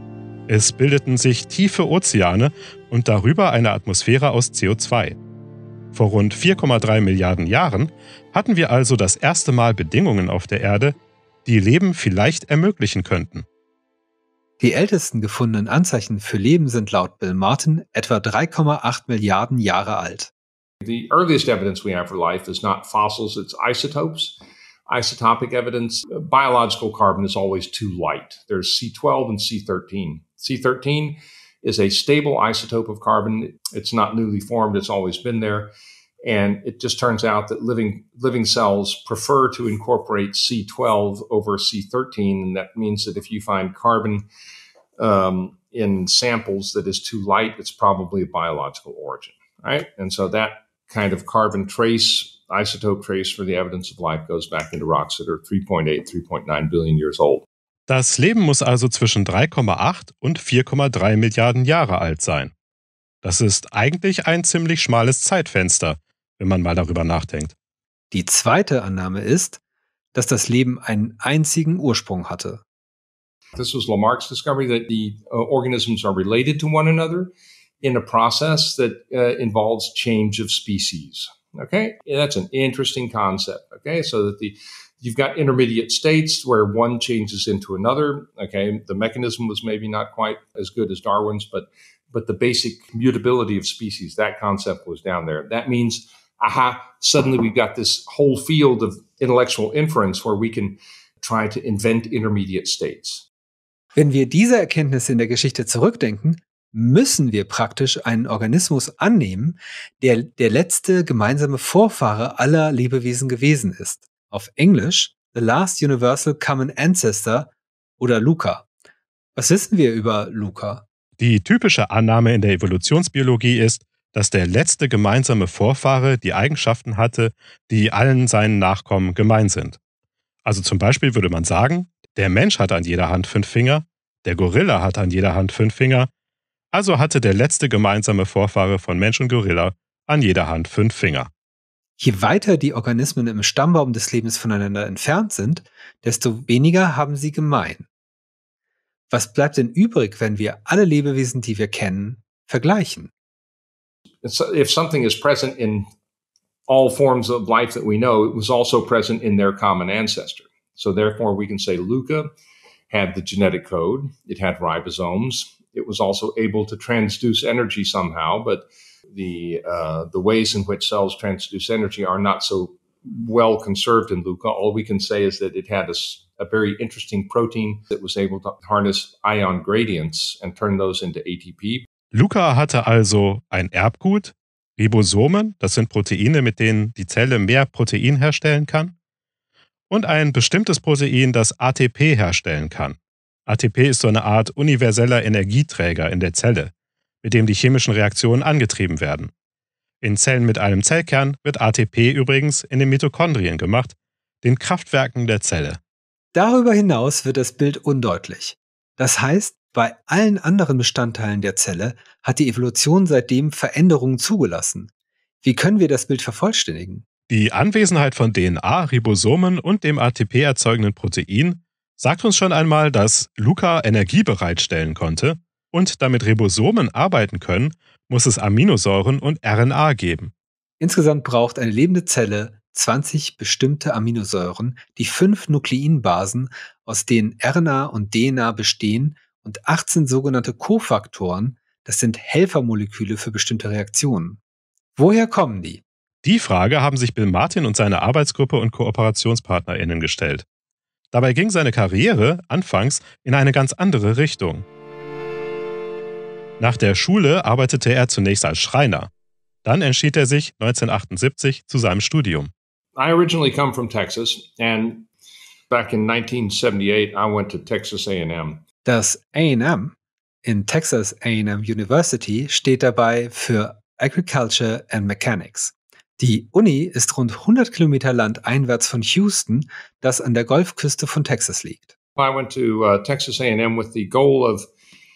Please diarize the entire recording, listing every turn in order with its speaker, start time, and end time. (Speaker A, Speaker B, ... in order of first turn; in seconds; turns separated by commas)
Speaker A: 0.5-5.2, Speaker A: 5.9-13.4, Speaker B: 14.6-20.3, Speaker C: 20.8-24.4, Speaker C: 24.9-35.7, Speaker C: 36.2-44.2, Speaker C: 45.0-57.4, Speaker A: 57.9-62.5, Speaker A: 63.2-67.5, Speaker B: 68.1-69.6, Speaker B: 70.1-72.6, Speaker C: 73.5-103.3, Speaker B: 103.9-118.7, Speaker B: 119.3-120.8, Speaker A: 121.2-129.8, Speaker A: 130.4-136.1, Speaker A: 136.7-141.3, Speaker B: 142.0-147.8, Speaker B: 149.1-153.1, Speaker C: 154.2-155.8, Speaker C: 156.7-162.3, Speaker C: 162.9-181.8, Speaker A: 182.1-188.9, Speaker A: 189.9-196.7, Speaker A: 197.2-199.3, Speaker A: 200.0-205.8, Speaker B: 206.3-214.9, Speaker B: 215.4-217.1, Speaker A: 217.3-230.3, Speaker B: 230.8-244.4, Speaker B: 244.9-245.8, Speaker A: 246.2-250.4, Speaker A: 251.1-254.6, Speaker A: 256.6-259.1, Speaker A: 259.6-262.5, Speaker C: 262.9-265.1, Speaker C: 265.7-268.6, Speaker B: 268.8-281.9, Speaker C: 282.2-284.7